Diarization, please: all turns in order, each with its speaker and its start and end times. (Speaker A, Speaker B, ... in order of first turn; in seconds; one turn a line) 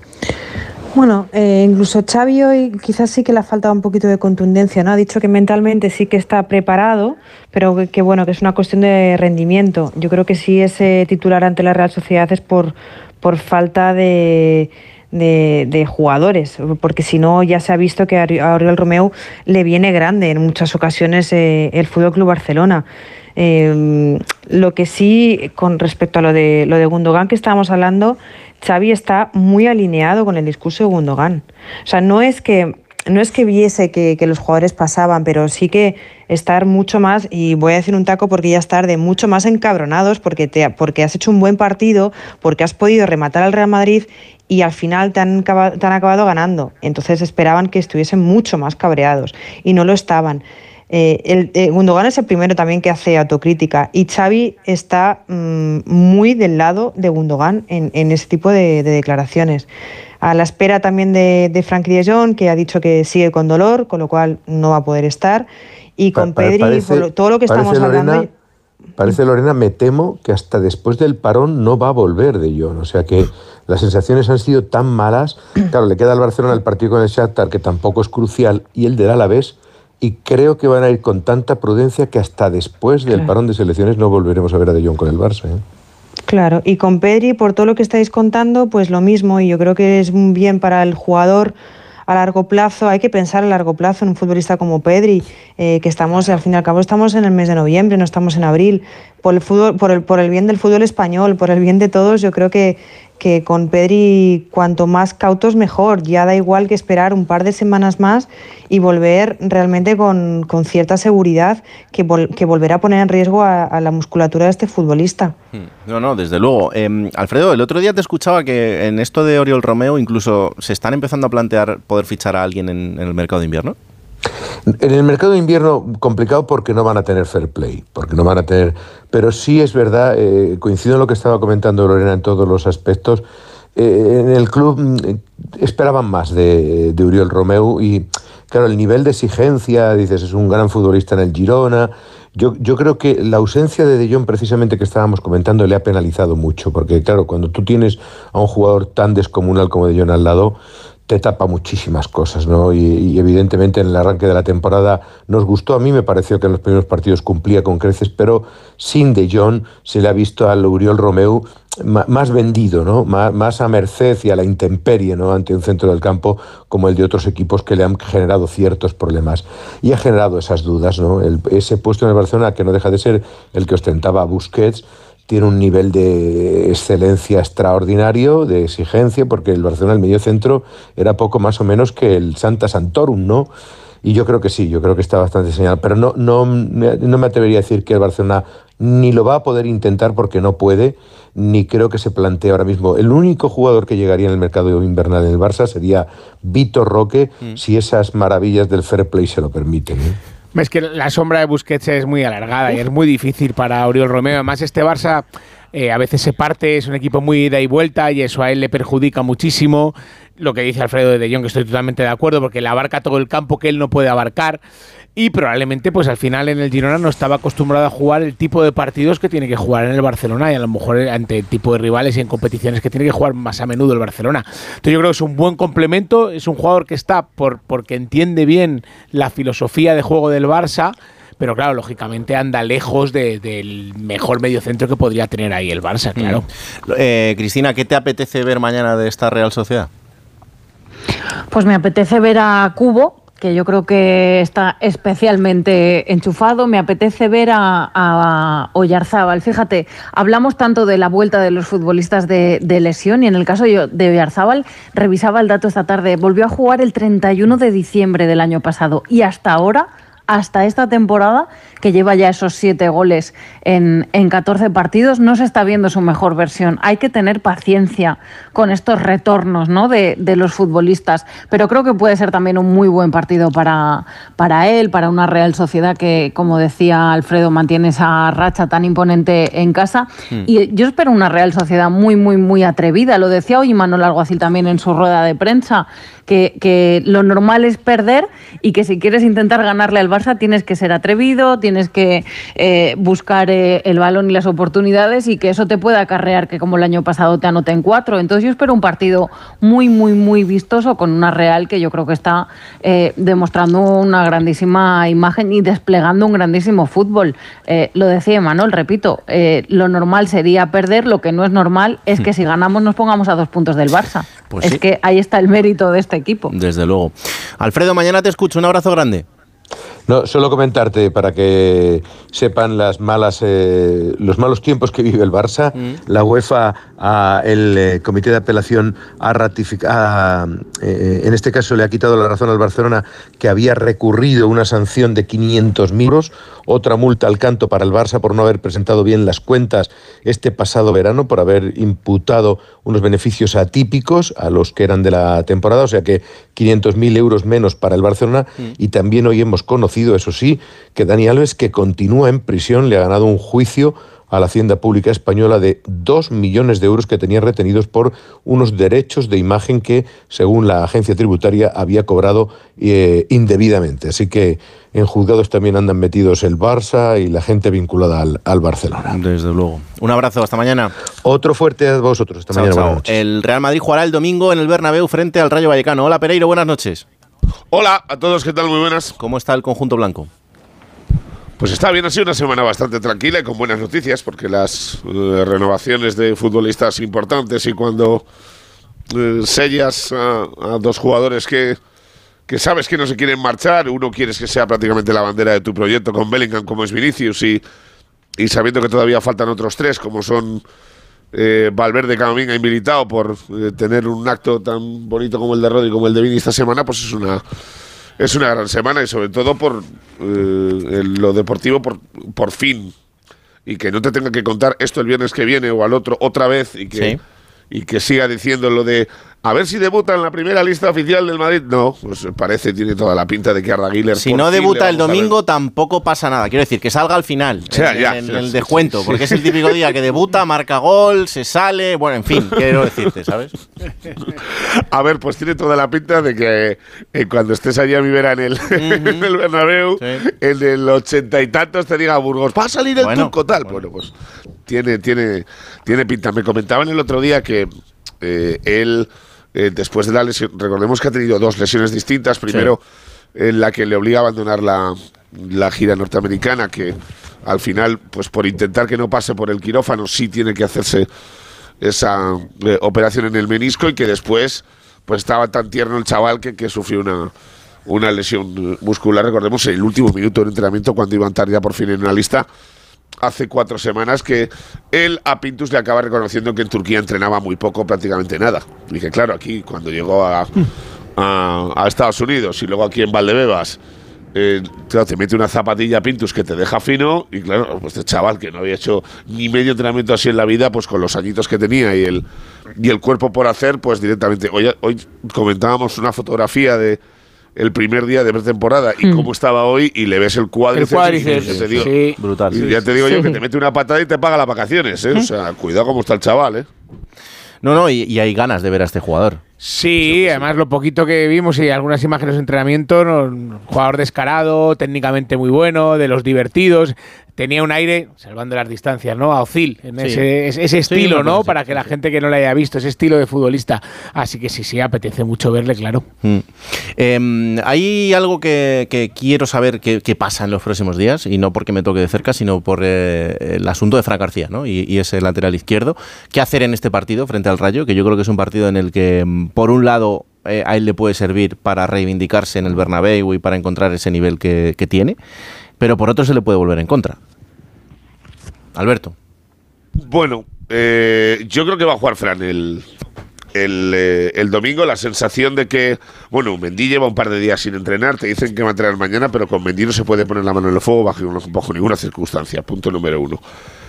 Speaker A: 0.9-59.7
Speaker A: 60.2-68.3
Speaker B: 66.1-68.3
Speaker B: 69.0-85.6
Speaker A: 86.3-91.5
Speaker A: 92.1-115.3
Speaker C: 115.5-123.8
Speaker B: 124.7-133.2
Speaker B: 133.8-183.5
Speaker B: 184.0-200.2
Speaker D: 200.5-214.6
Speaker D: 215.2-236.4
Speaker C: 236.2-239.9
Speaker E: 241.5-316.5
Speaker C: 314.5-314.8
Speaker C: 316.5-319.2
Speaker B: 320.1-369.2
Speaker C: 369.1-370.9
Speaker B: 371.2-373.1
Speaker C: 372.5-377.0
Speaker F: 377.7-379.1
Speaker C: 379.2-380.3
Speaker F: 381.6-388.2
Speaker F: 389.1-391.8
Speaker F: 392.5-397.6
Speaker F: 398.4-400.6
Speaker F: 401.3-407.4
Speaker F: 408.2-412.9
Speaker F: 413.6-417.2
Speaker C: 416.9-417.2
Speaker F: 417.7-425.3
Speaker C: 424.1-433.5
Speaker F: 427.7-429.6
Speaker F: 434.9-444.1
Speaker C: 438.8-439.2
Speaker C: 443.0-443.8
Speaker F: 444.7-447.7
Speaker F: 448.2-452.8
Speaker C: 452.5-452.7
Speaker F: 453.4-461.1
Speaker F: 461.8-467.3
Speaker F: 467.9-472.5
Speaker F: 473.2-480.5
Speaker F: 481.2-483.8
Speaker F: 484.3-492.2
Speaker F: 492.8-497.0
Speaker F: 497.6-501.9
Speaker D: 500.7-502.2
Speaker C: 501.2-502.8
Speaker F: 502.5-506.7
Speaker C: 507.6-509.4
Speaker D: 509.6-526.0
Speaker C: 510.0-510.4
Speaker C: 520.0-520.2
Speaker C: 520.8-521.9
Speaker C: 526.2-545.2
Speaker C: 545.8-547.2
Speaker C: 548.7-549.1
Speaker F: 550.0-552.8
Speaker F: 553.5-563.4